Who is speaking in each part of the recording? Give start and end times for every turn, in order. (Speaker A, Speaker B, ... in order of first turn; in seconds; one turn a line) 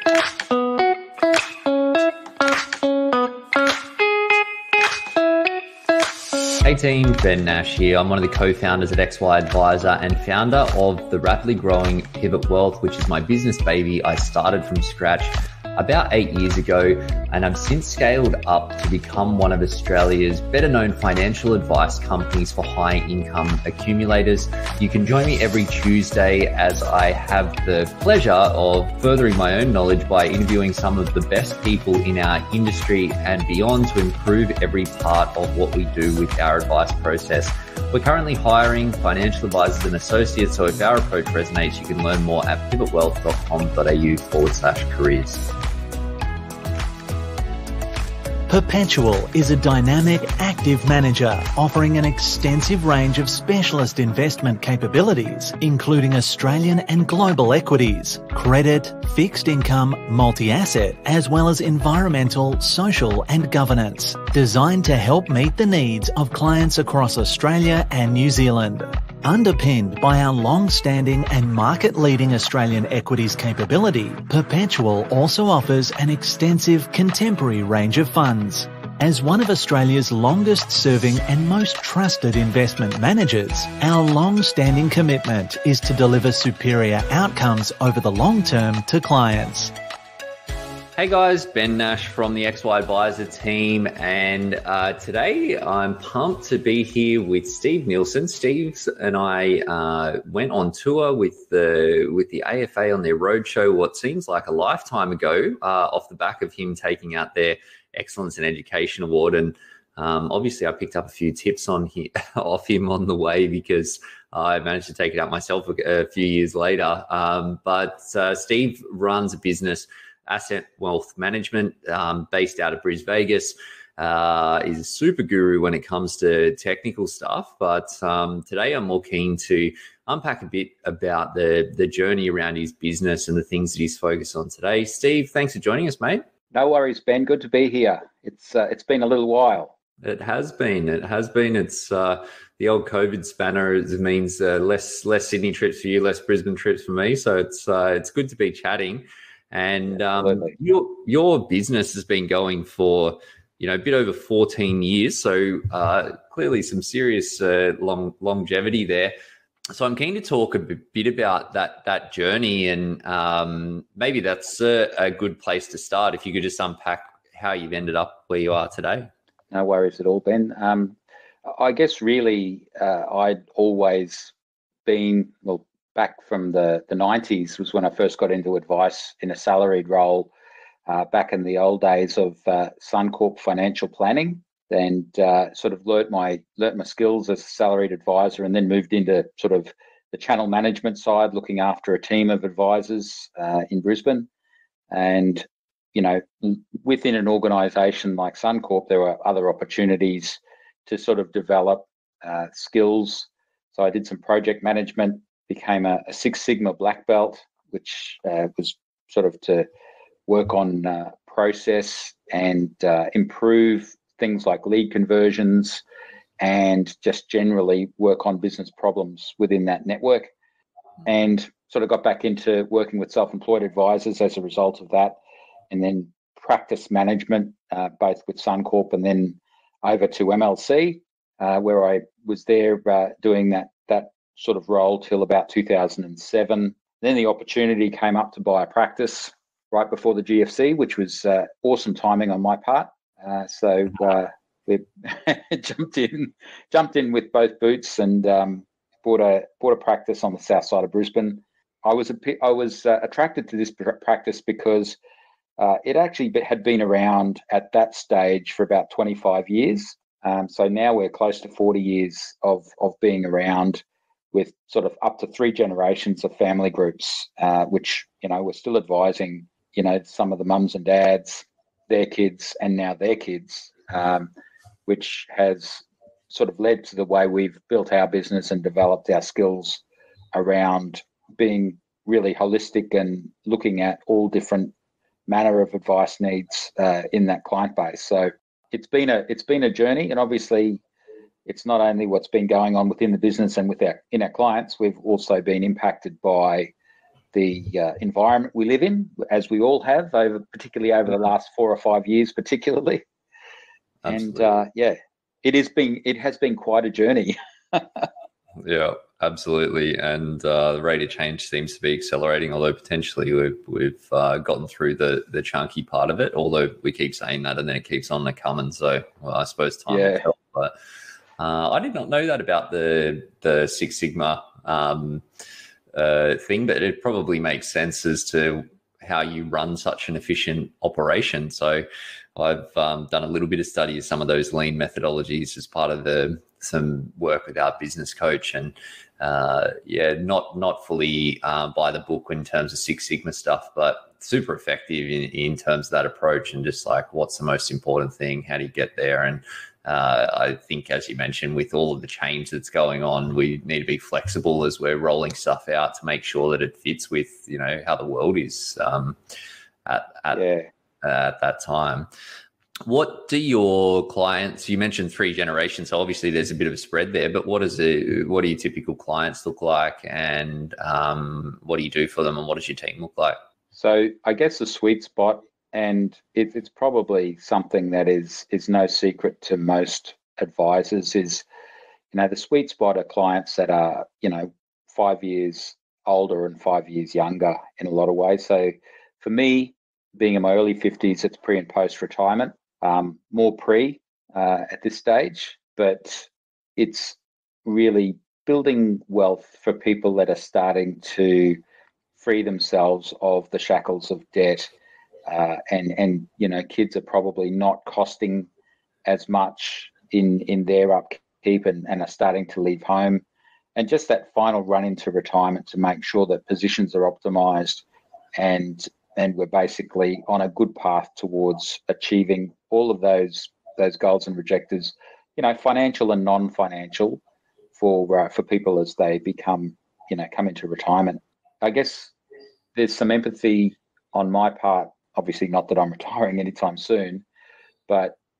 Speaker A: 6.6-45.4
Speaker B: 48.5-89.7
Speaker A: 91.0-136.2
Speaker C: 136.5-139.7
Speaker A: 140.0-159.2
Speaker C: 150.2-150.5
Speaker A: 159.7-169.1
Speaker C: 169.5-174.3
Speaker C: 174.9-180.3
Speaker C: 180.9-194.3
Speaker C: 194.9-209.7
Speaker C: 210.3-215.8
Speaker C: 216.4-220.3
Speaker C: 221.1-225.2
Speaker C: 225.7-255.0
Speaker C: 255.6-274.3
Speaker C: 274.9-279.8
Speaker C: 280.3-284.7
Speaker C: 285.3-290.8
Speaker C: 291.5-296.7
Speaker C: 297.3-303.0
Speaker A: 304.0-304.5
Speaker C: 304.1-308.1
Speaker A: 308.6-320.7
Speaker C: 319.9-320.3
Speaker A: 321.4-325.2
Speaker A: 325.9-331.9
Speaker A: 332.4-359.2
Speaker A: 359.9-360.4
Speaker C: 360.3-360.7
Speaker A: 361.0-362.1
Speaker A: 362.9-373.4
Speaker C: 373.7-381.4
Speaker C: 382.1-401.6
Speaker C: 402.2-404.7
Speaker C: 405.3-408.5
Speaker C: 409.1-413.2
Speaker C: 413.8-417.8
Speaker C: 418.4-427.2
Speaker C: 427.8-432.1
Speaker C: 432.8-437.2
Speaker C: 437.9-438.2